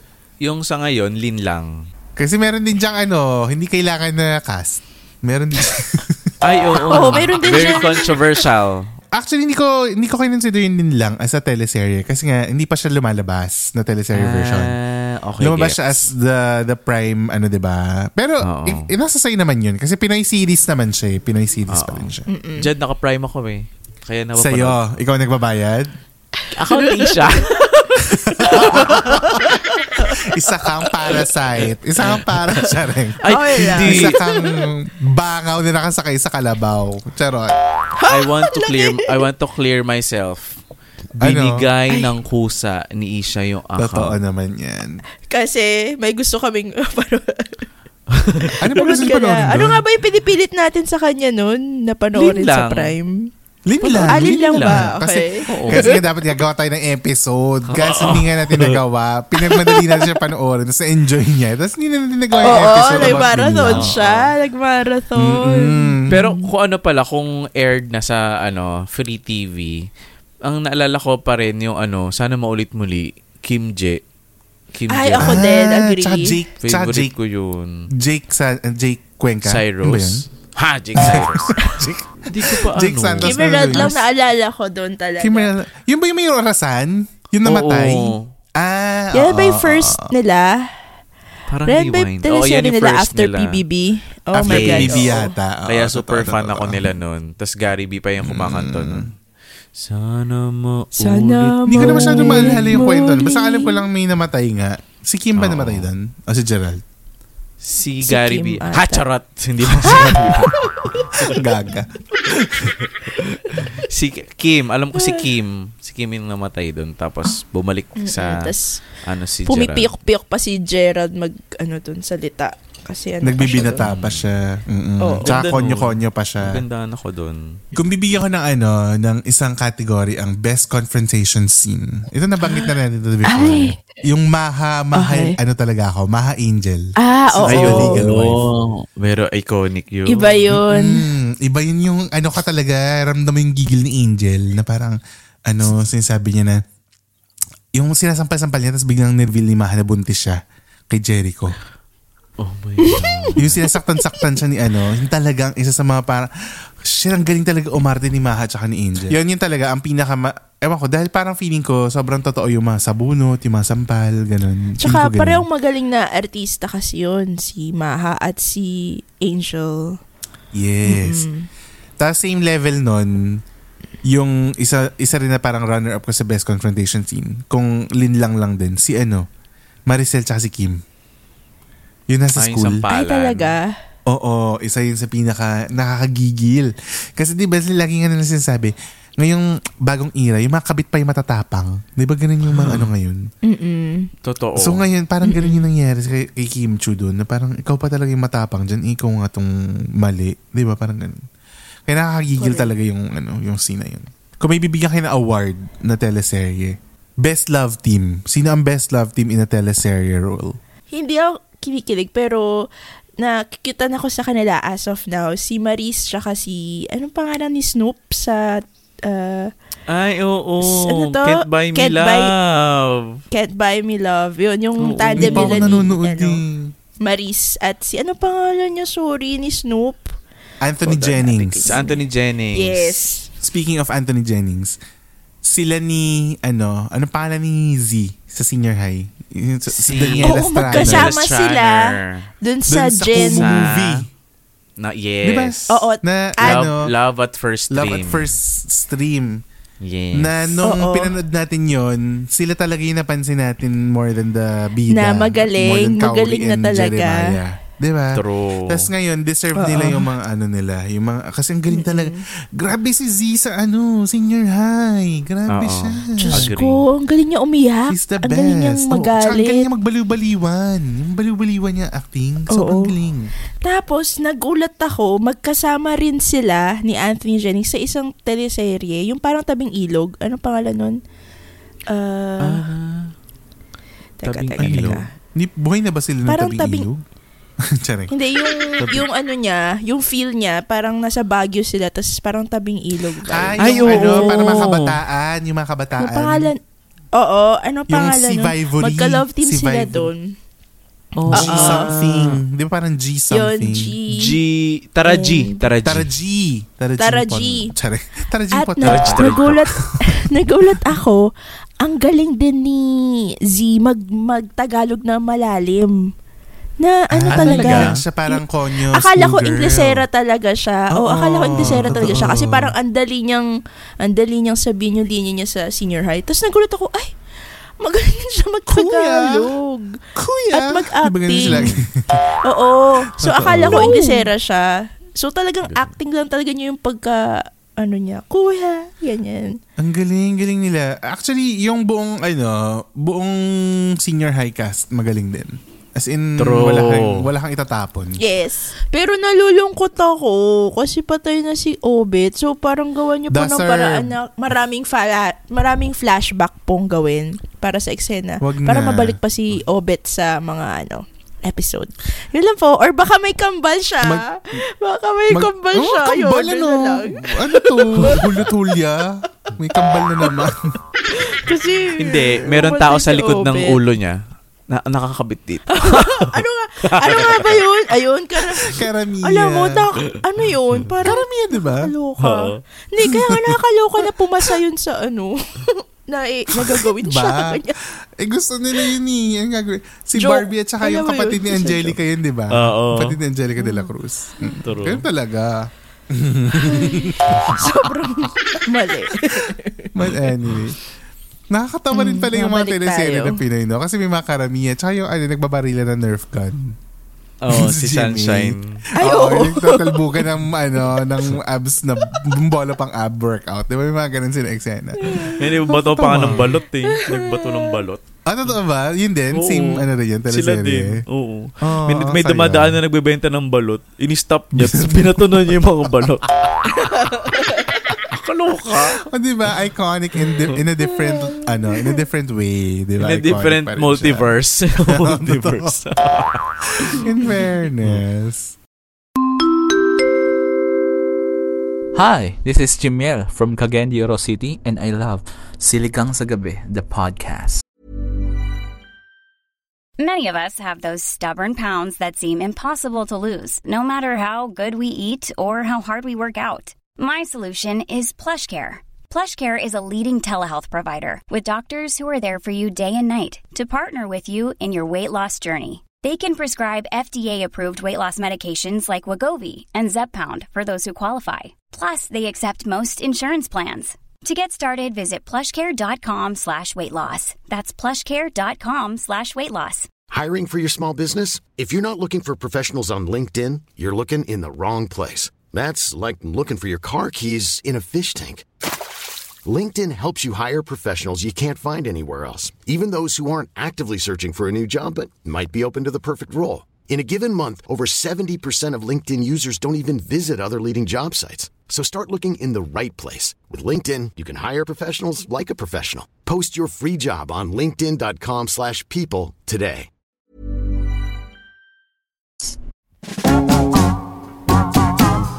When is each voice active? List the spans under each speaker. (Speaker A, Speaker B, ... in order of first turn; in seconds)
Speaker A: 0.4-1.8, 6.4-8.9, 14.1-16.1, 18.4-18.9, 21.7-24.8, 26.5-27.9, 28.6-29.2, 31.6-32.7, 33.2-34.1, 38.1-40.6, 41.2-44.2, 48.1-48.5, 52.1-52.9, 53.8-54.9, 55.5-56.0, 57.7-58.8, 62.5-64.3, 66.1-69.9, 70.4-74.0, 74.7-75.5, 76.6-77.9, 79.4-83.9, 87.4-88.3, 91.5-93.5, 94.5-99.1, 99.8-102.8, 105.4-105.9, 107.6-110.5, 113.5-119.9, 123.8-124.3, 125.2-127.6, 137.5-140.5, 152.4-153.6, 182.4-183.6, 192.5-192.9, 194.2-194.8, 219.9-223.2, 224.8-225.9, 231.1-233.1, 239.7-242.3, 243.2-244.0, 244.8-245.8, 246.4-248.3, 249.8-250.6, 258.1-258.9, 265.5-266.8, 282.4-283.1, 284.2-285.0, 293.6-295.0, 301.2-302.4, 304.1-306.1, 308.8-309.6, 317.3-318.0, 331.5-331.8, 333.6-334.0, 346.4-347.3, 372.0-376.4, 377.0-377.6, 382.2-382.6, 392.5-393.2, 394.6-395.0, 407.4-408.8, 415.3-418.0, 419.3-429.0, 433.0-437.0
Speaker B: 2.1-7.8, 9.1-14.7, 15.4-22.3, 24.3-25.9, 28.1-37.5, 41.2-41.6, 43.8-45.0, 48.6-49.8, 53.6-63.9, 65.2-66.2, 75.2-77.1, 77.9-80.2, 81.0-84.0, 85.2-90.0, 94.3-96.9, 98.2-99.1, 101.7-106.8, 109.7-110.5, 111.2-112.7, 123.2-126.6, 127.7-138.4, 140.5-146.6, 147.7-150.4, 150.9-151.6, 153.4-165.4, 170.5-171.3, 172.0-173.4, 174.1-179.3, 179.9-180.8, 182.1-182.8, 184.1-193.3, 194.6-201.2, 201.9-210.6, 225.2-226.7, 230.6-231.8, 233.4-234.8, 235.4-241.1, 242.7-244.1, 245.2-246.9, 247.7-249.4, 250.1-266.5, 267.9-273.3, 284.6-287.0, 287.6-288.1, 293.2-296.5, 297.9-300.1, 301.3-304.0, 305.8-310.2, 317.1-320.0, 320.9-322.7, 328.7-329.5, 330.1-332.1, 333.2-334.2, 339.8-348.2, 353.3-354.1, 358.4-359.2, 365.3-370.7, 378.6-379.9, 381.0-381.9, 383.1-383.6, 386.6-387.6, 388.2-397.7, 399.4-400.8, 401.5-406.8, 407.5-416.6, 418.2-421.0, 421.6-422.8, 424.5-425.9, 428.7-434.3, 434.9-435.8, 436.9-438.5
Speaker C: 6.9-8.1, 22.3-22.7, 26.4-30.2, 33.2-34.5, 38.0-39.2, 45.3-47.6, 48.4-53.3, 54.1-55.9, 62.4-66.5, 74.9-76.3, 83.2-85.5, 89.1-90.7, 91.7-95.3, 101.0-103.8, 108.0-109.0, 109.8-111.4, 115.0-115.2, 118.0-118.8, 119.5-123.8, 125.0-125.3, 133.3-133.7, 134.9-135.4, 137.0-138.0, 140.1-141.0, 152.8-153.3, 164.8-170.0, 170.8-171.5, 182.9-183.7, 193.4-194.1, 195.2-195.6, 202.4-202.7, 210.9-212.5, 213.2-219.5, 220.6-222.3, 223.3-226.4, 227.0-230.1, 230.9-233.3, 240.2-243.6, 245.7-246.6, 250.6-251.1, 254.9-257.4, 259.6-260.1, 261.7-262.2, 266.1-269.7, 272.5-272.9, 273.6-281.0, 281.9-282.6, 284.2-285.1, 286.3-286.9, 288.1-294.6, 296.0-296.6, 297.1-300.3, 301.3-301.9, 303.3-304.3, 305.1-305.6, 307.0-307.7, 308.5-311.3, 311.8-316.0, 316.8-323.5, 324.0-327.1, 327.8-330.0, 330.5-331.6, 332.2-339.6, 348.2-368.2, 371.1-373.8, 375.7-387.7, 390.2-392.0, 393.6-393.9, 396.6-400.3, 401.9-403.4, 409.0-410.2, 415.0-415.4, 416.9-417.7, 426.9-427.2, 431.0-431.5
Speaker D: 441.9-447.6
Speaker E: 450.0-479.9
Speaker F: 480.1-488.4, 489.4-509.9